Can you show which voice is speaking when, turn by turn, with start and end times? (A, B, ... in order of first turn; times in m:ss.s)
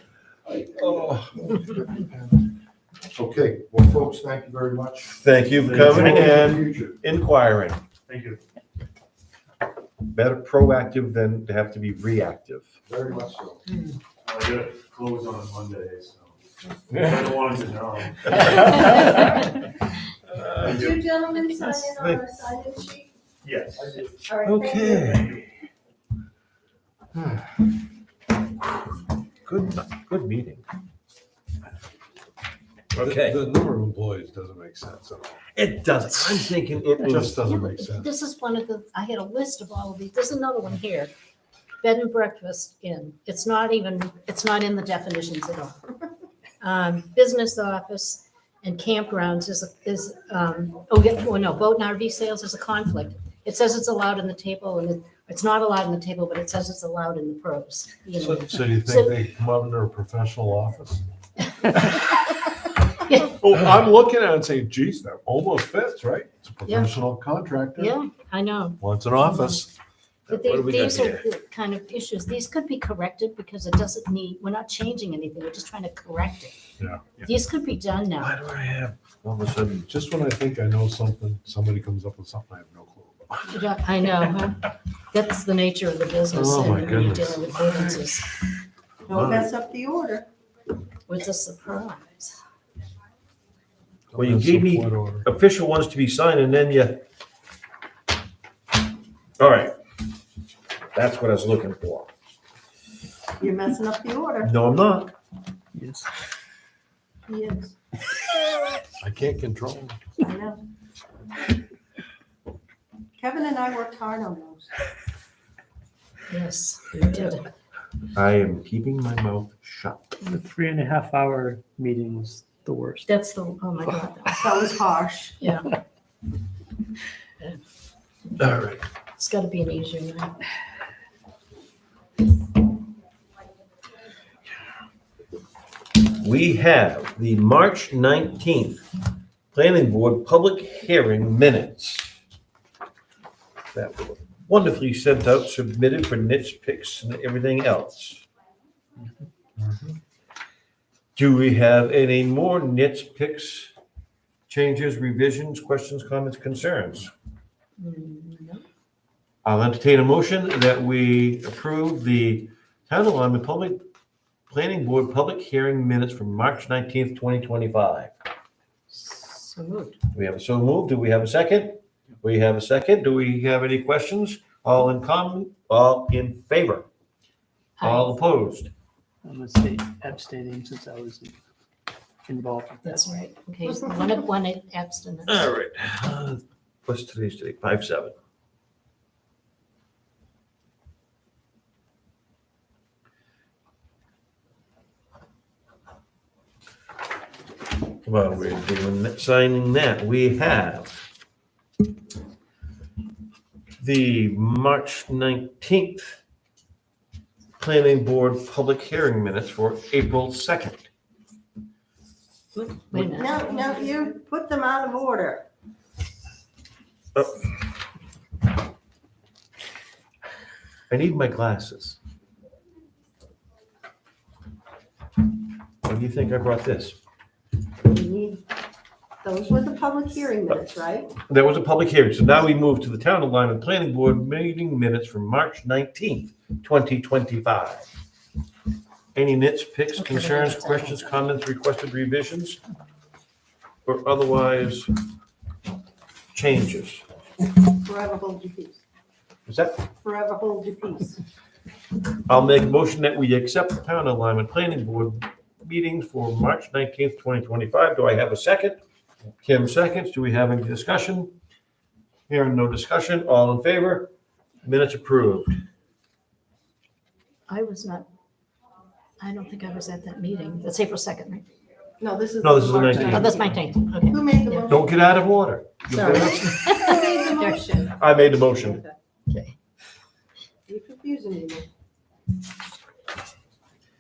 0:00.5-0:02.5 A
0:00.8-0:01.2 B
0:03.1-0:07.0 A
0:05.1-0:07.8 B
0:08.1-0:08.4 C
0:10.1-0:12.7 B
0:12.9-0:13.6 A
0:14.3-0:16.3 C
0:16.9-0:17.5 D
0:16.9-0:18.2 C
0:18.5-0:19.2 D
0:20.4-0:20.8 B
0:20.6-0:23.1 E
0:20.7-0:20.9 C
0:21.6-0:22.2 B
0:23.5-0:23.9 C
0:23.8-0:24.1 A
0:24.2-0:25.3 E
0:24.4-0:25.4 B
0:29.4-0:30.6 B
0:32.9-0:33.4 B
0:33.0-0:35.4 D
0:35.5-0:37.4 B
0:37.0-0:38.1 D
0:37.4-0:41.1 F
0:41.8-0:46.0 F
0:46.6-0:59.2 F
0:58.2-1:01.0 D
1:01.6-1:02.0 F
1:03.0-1:03.4 F
1:03.3-1:08.0 D
1:06.7-1:07.0 F
1:07.8-1:09.6 F
1:08.8-1:09.7 D
1:10.3-1:11.2 B
1:10.3-1:16.6 F
1:16.8-1:17.2 D
1:17.2-1:18.3 F
1:18.2-1:19.9 B
1:19.9-1:23.5 D
1:23.5-1:28.3 F
1:26.3-1:28.0 D
1:29.1-1:30.3 E
1:29.1-1:29.5 B
1:31.1-1:32.4 F
1:34.1-1:35.2 D
1:34.2-1:37.0 B
1:39.4-1:39.8 B
1:40.9-1:42.1 B
1:43.4-1:44.5 E
1:44.4-1:45.2 B
1:45.8-1:46.1 G
1:47.3-1:47.7 E
1:49.0-1:50.1 D
1:50.2-1:50.6 E
1:53.2-1:54.7 E
1:56.3-1:57.4 F
1:58.1-2:00.1 B
2:00.2-2:03.1 G
2:03.1-2:04.5 F
2:04.4-2:05.4 E
2:05.4-2:05.7 F
2:08.4-2:08.8 B
2:09.2-2:10.4 F
2:16.1-2:18.8 B
2:19.5-2:22.2 B
2:23.7-2:28.2 B
2:31.2-2:33.7 B
2:34.5-2:37.1 B
2:37.8-2:38.6 F
2:39.4-2:43.8 B
2:44.5-2:48.1 B
2:48.9-2:50.0 F
2:50.1-2:56.9 B
2:57.8-2:58.2 F
2:57.8-2:58.7 B
2:59.2-3:01.4 G
3:02.3-3:03.0 G
3:02.8-3:05.5 F
3:05.3-3:08.2 B
3:18.0-3:21.0 B
3:23.8-3:26.2 B
3:27.6-3:30.9 B
3:32.6-3:33.9 F
3:32.9-3:35.5 E
3:37.2-3:37.5 B
3:40.9-3:42.0 B
3:45.8-3:47.0 B
3:47.8-3:48.4 E
3:49.2-3:51.2 E
3:51.2-3:57.9 B
3:59.2-4:02.6 B
4:00.0-4:01.1 F
4:03.9-4:04.9 B
4:06.3-4:07.0 B
4:07.8-4:08.8 E
4:09.5-4:09.8 B
4:10.0-4:11.2 E
4:12.3-4:18.8 B
4:19.4-4:21.3 B
4:22.3-4:24.1 B
4:24.6-4:25.6 B
4:27.5-4:28.1 F
4:29.2-4:31.5 F
4:32.0-4:34.9 E
4:32.4-4:33.4 B
4:33.1-4:34.8 F
4:34.7-4:36.6 B
4:35.9-4:38.0 E
4:36.4-4:37.6 F
4:38.0-4:38.8 B
4:38.6-4:39.0 E
4:39.3-4:39.6 F
4:40.7-4:41.7 E